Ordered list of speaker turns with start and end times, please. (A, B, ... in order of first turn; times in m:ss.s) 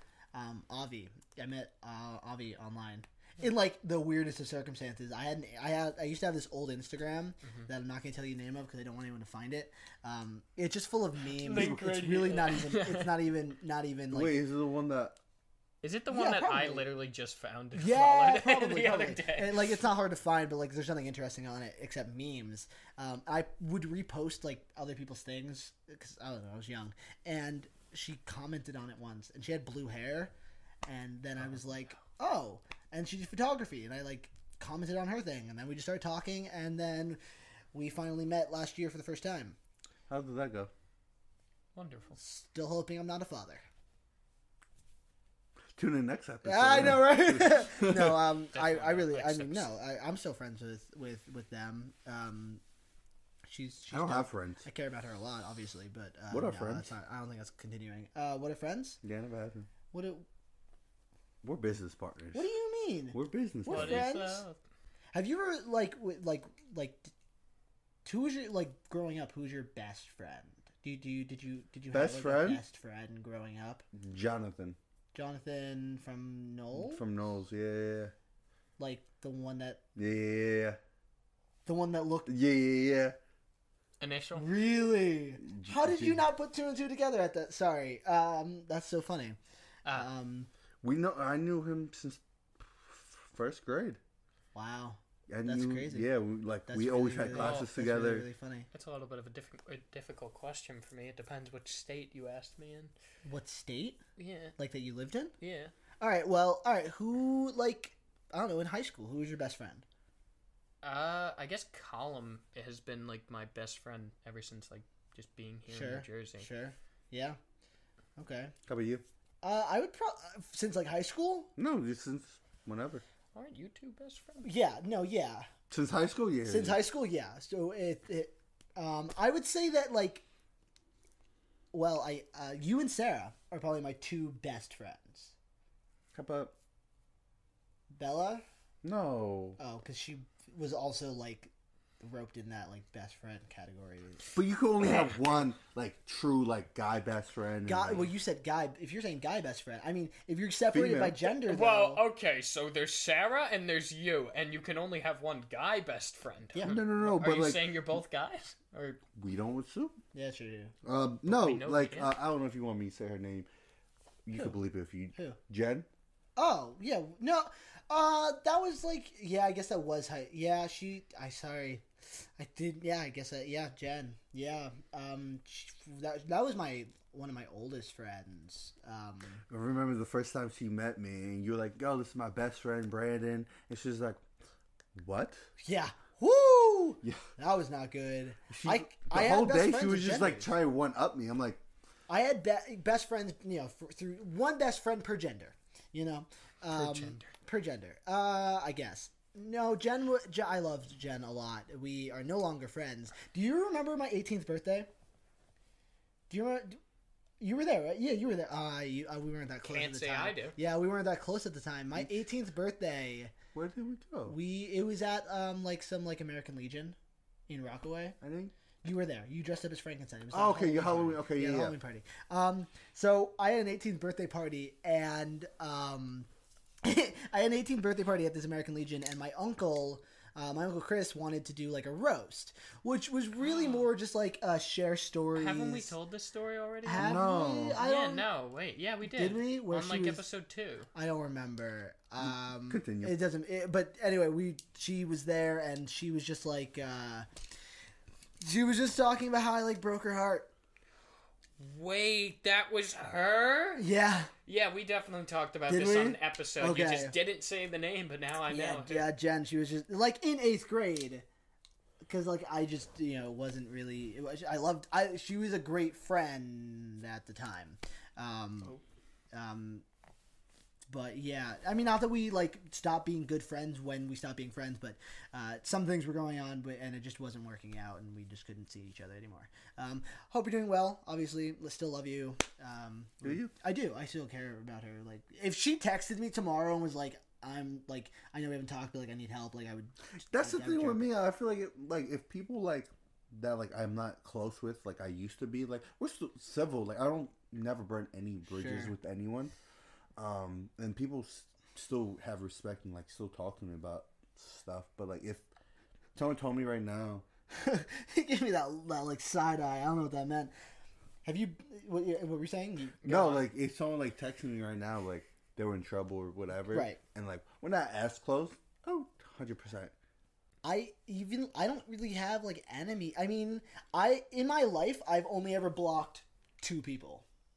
0:00.3-0:14.4 A
0:11.4-0:13.2 B
0:11.5-0:11.9 C
0:14.1-0:15.2 C
0:15.8-0:19.7 B
0:16.1-0:16.9 A
0:17.7-0:30.3 A
0:30.9-0:37.2 A
0:37.7-0:39.6 A
0:40.1-0:40.7 C
0:41.8-0:42.2 B
0:42.2-0:43.6 A
0:45.8-0:48.2 C
0:46.4-0:52.6 A
0:48.5-0:49.7 B
0:53.5-0:59.0 A
0:53.9-0:54.6 C
0:56.3-0:56.9 C
0:59.0-0:59.7 C
0:59.9-1:00.2 A
1:01.4-1:02.5 C
1:02.3-1:04.4 A
1:03.1-1:04.1 C
1:03.7-1:04.6 B
1:05.1-1:07.1 A
1:08.0-1:13.8 A
1:11.9-1:12.6 C
1:13.9-1:14.8 C
1:15.1-1:17.0 A
1:16.7-1:18.1 C
1:18.8-1:19.8 A
1:20.0-1:20.8 C
1:21.7-1:22.3 A
1:22.3-1:23.2 C
1:24.0-1:24.5 B
1:24.4-1:29.4 A
1:25.4-1:26.3 C
1:29.9-1:30.5 A
1:30.8-1:34.0 C
1:34.5-1:36.1 A
1:35.3-1:38.3 C
1:36.7-1:38.7 A
1:37.3-1:37.7 B
1:38.7-1:42.9 B
1:43.2-1:44.0 A
1:44.2-1:44.6 B
1:44.6-1:45.3 A
1:45.4-1:45.7 B
1:46.0-1:49.8 A
1:50.8-1:56.5 B
1:55.7-1:57.4 A
1:58.2-1:58.5 A
1:58.7-1:59.0 C
1:59.4-2:01.5 A
2:01.6-2:03.0 C
2:03.4-2:04.5 B
2:04.4-2:05.5 A
2:05.7-2:06.8 C
2:06.5-2:10.2 A
2:11.7-2:15.3 A
2:16.1-2:16.6 C
2:17.9-2:18.4 A
2:18.8-2:19.6 C
2:19.6-2:24.3 A
2:24.3-2:28.1 C
2:27.7-2:32.0 A
2:30.7-2:31.2 C
2:31.4-2:39.0 B
2:36.6-2:37.7 C
2:39.1-2:40.0 C
2:40.1-2:40.8 A
2:40.8-2:43.5 C
2:41.3-2:42.2 B
2:44.3-2:45.9 C
2:46.4-2:51.8 A
2:52.4-2:59.4 A
2:59.5-3:04.2 C
3:05.0-3:05.5 C
3:05.6-3:10.5 A
3:08.5-3:11.6 C
3:12.1-3:24.9 A
3:16.7-3:17.3 B
3:26.3-3:26.8 A
3:27.4-3:33.3 A
3:29.7-3:30.6 B
3:33.5-3:34.4 C
3:34.3-3:37.0 A
3:37.5-3:38.2 A
3:38.2-3:38.5 C
3:38.8-3:46.3 A
3:40.3-3:41.8 C
3:46.8-3:55.9 A
3:53.4-3:53.9 B
3:55.3-3:57.2 B
3:56.8-3:58.3 A
3:57.0-3:57.8 C
3:57.8-4:00.9 B
3:59.1-4:00.2 A
4:01.0-4:07.3 A
4:02.2-4:03.2 C
4:08.4-4:10.5 A
4:11.6-4:13.8 B
4:13.8-4:14.3 A
4:14.5-4:19.1 B
4:15.7-4:17.2 A
4:18.5-4:21.2 A
4:22.0-4:28.7 A
4:29.3-4:29.8 A
4:30.9-4:51.1 A
4:43.2-4:43.5 C
4:50.3-4:59.5 C
4:58.5-4:58.9 A
5:00.2-5:05.5 C
5:06.2-5:07.3 C
5:07.5-5:10.5 A
5:11.2-5:13.0 A
5:13.0-5:13.5 B
5:13.0-5:19.9 C
5:16.7-5:17.0 A
5:20.6-5:27.2 A